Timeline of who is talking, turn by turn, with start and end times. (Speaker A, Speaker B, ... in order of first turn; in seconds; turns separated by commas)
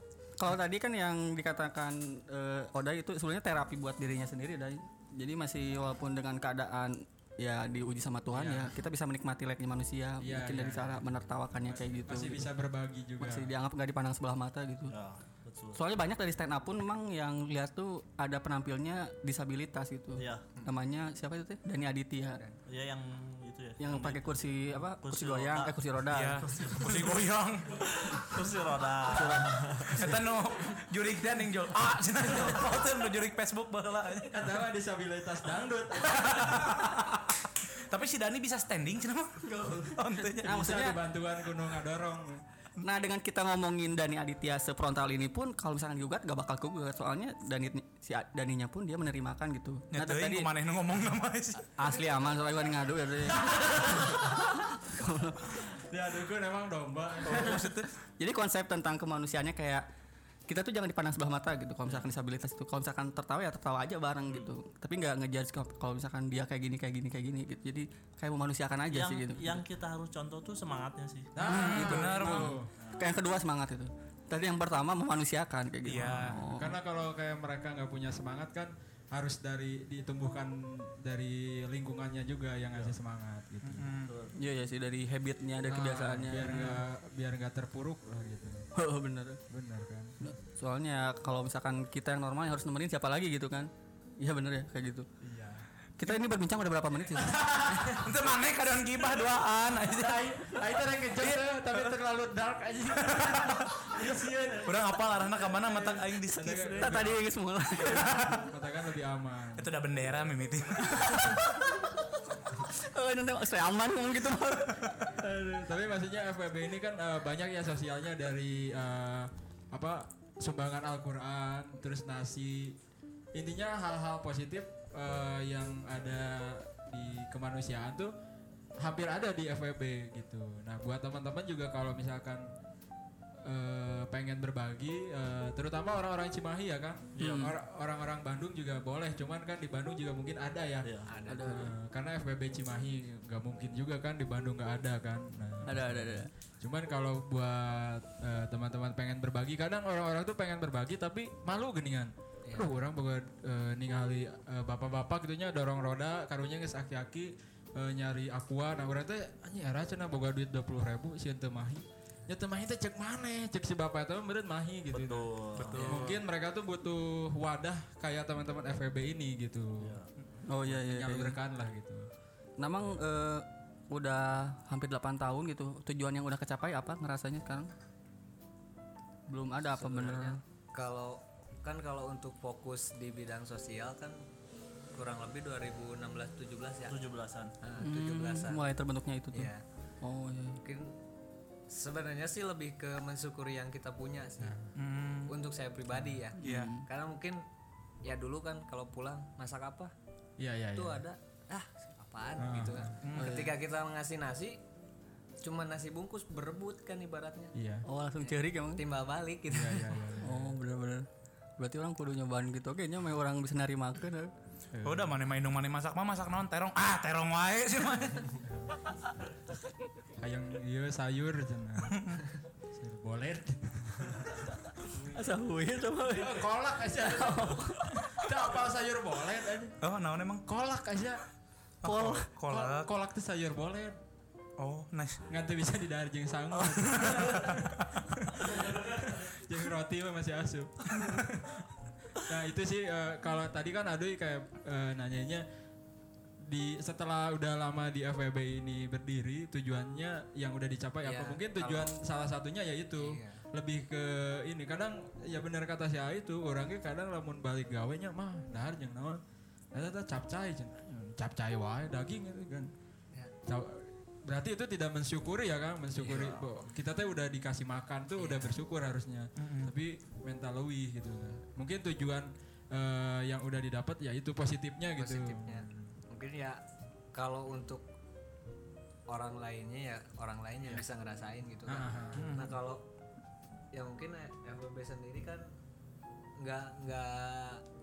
Speaker A: 0.4-12.4, Speaker B: 8.3-8.7, Speaker B: 10.2-11.0, Speaker B: 12.0-13.5, Speaker A: 13.2-14.9, Speaker C: 14.9-15.8, Speaker A: 15.7-22.4, Speaker C: 20.2-20.4, Speaker C: 22.6-24.2, Speaker A: 23.8-26.5, Speaker C: 24.9-25.7, Speaker D: 26.1-28.0, Speaker C: 26.3-27.2, Speaker C: 28.1-30.1, Speaker A: 29.1-29.7, Speaker D: 29.9-34.5, Speaker B: 34.3-37.0, Speaker D: 36.1-41.0, Speaker A: 39.4-41.0, Speaker B: 40.4-42.4, Speaker A: 42.8-50.5, Speaker D: 49.9-51.8, Speaker A: 51.6-55.6, Speaker B: 55.6-57.7, Speaker D: 57.2-57.9, Speaker A: 57.4-59.9, Speaker A: 60.5-69.6, Speaker C: 68.9-71.3, Speaker B: 71.3-72.7, Speaker D: 71.4-72.5, Speaker A: 71.7-76.8, Speaker C: 72.8-73.1, Speaker D: 75.8-76.4, Speaker B: 76.3-83.9, Speaker D: 83.6-84.1, Speaker C: 84.0-84.4, Speaker A: 84.3-86.8, Speaker B: 85.7-88.7, Speaker A: 88.7-89.4, Speaker B: 89.5-90.3, Speaker A: 90.2-95.1, Speaker B: 95.2-95.7, Speaker A: 96.0-97.5, Speaker B: 97.3-98.1, Speaker D: 97.7-100.6, Speaker B: 99.9-107.0, Speaker D: 101.2-101.9, Speaker D: 103.0-103.9, Speaker D: 104.6-107.2, Speaker A: 106.8-108.4, Speaker D: 107.8-108.4, Speaker B: 107.8-109.7, Speaker D: 109.6-111.4, Speaker A: 110.9-112.0, Speaker A: 112.5-114.8, Speaker B: 115.0-122.8, Speaker B: 123.3-128.1, Speaker B: 128.8-132.4, Speaker B: 133.4-140.9, Speaker C: 137.2-137.5, Speaker A: 137.2-137.5, Speaker C: 140.8-141.1, Speaker E: 141.1-141.7, Speaker A: 141.3-141.7, Speaker B: 141.4-170.0, Speaker A: 145.6-146.3, Speaker E: 152.4-152.7, Speaker C: 164.9-166.2, Speaker D: 165.6-166.2, Speaker C: 169.8-170.1, Speaker A: 170.4-171.4, Speaker B: 170.6-172.1, Speaker A: 172.6-177.7, Speaker A: 179.3-180.4, Speaker E: 179.7-184.2, Speaker E: 184.9-186.9, Speaker C: 186.9-187.5, Speaker E: 187.6-188.6, Speaker A: 187.8-190.6, Speaker E: 189.3-189.6, Speaker E: 190.6-191.0, Speaker E: 191.7-194.5, Speaker B: 194.4-194.7, Speaker D: 194.8-195.3, Speaker E: 195.3-197.4, Speaker B: 195.9-196.2, Speaker A: 196.4-196.8, Speaker D: 196.4-196.7, Speaker E: 198.0-199.9, Speaker B: 200.4-201.0, Speaker E: 200.7-204.6, Speaker B: 202.4-203.0, Speaker D: 203.0-203.3, Speaker A: 203.1-203.6, Speaker E: 205.4-207.5, Speaker B: 207.5-207.8, Speaker A: 207.8-208.8, Speaker E: 208.2-210.0, Speaker B: 209.5-210.5, Speaker A: 210.2-214.3, Speaker B: 214.7-215.1, Speaker D: 214.8-218.3, Speaker B: 218.4-218.7, Speaker B: 220.2-222.1, Speaker D: 221.9-222.2, Speaker B: 222.7-225.2, Speaker A: 225.1-226.5, Speaker B: 226.1-229.8, Speaker A: 227.0-228.3, Speaker D: 229.8-230.4, Speaker B: 230.4-231.2, Speaker D: 231.8-232.9, Speaker A: 231.8-232.3, Speaker B: 232.4-234.0, Speaker D: 234.6-235.2, Speaker B: 235.3-241.7, Speaker D: 236.7-237.8, Speaker B: 242.2-245.4, Speaker B: 246.5-259.2, Speaker E: 251.0-251.9, Speaker E: 252.9-253.4, Speaker B: 259.7-262.7, Speaker B: 263.4-275.9, Speaker C: 266.0-266.5, Speaker E: 268.1-268.5, Speaker D: 269.4-269.7, Speaker E: 274.9-276.6, Speaker E: 277.1-277.8, Speaker E: 279.1-282.8, Speaker B: 281.7-282.4, Speaker D: 282.2-282.5, Speaker E: 283.7-285.5, Speaker E: 286.4-287.6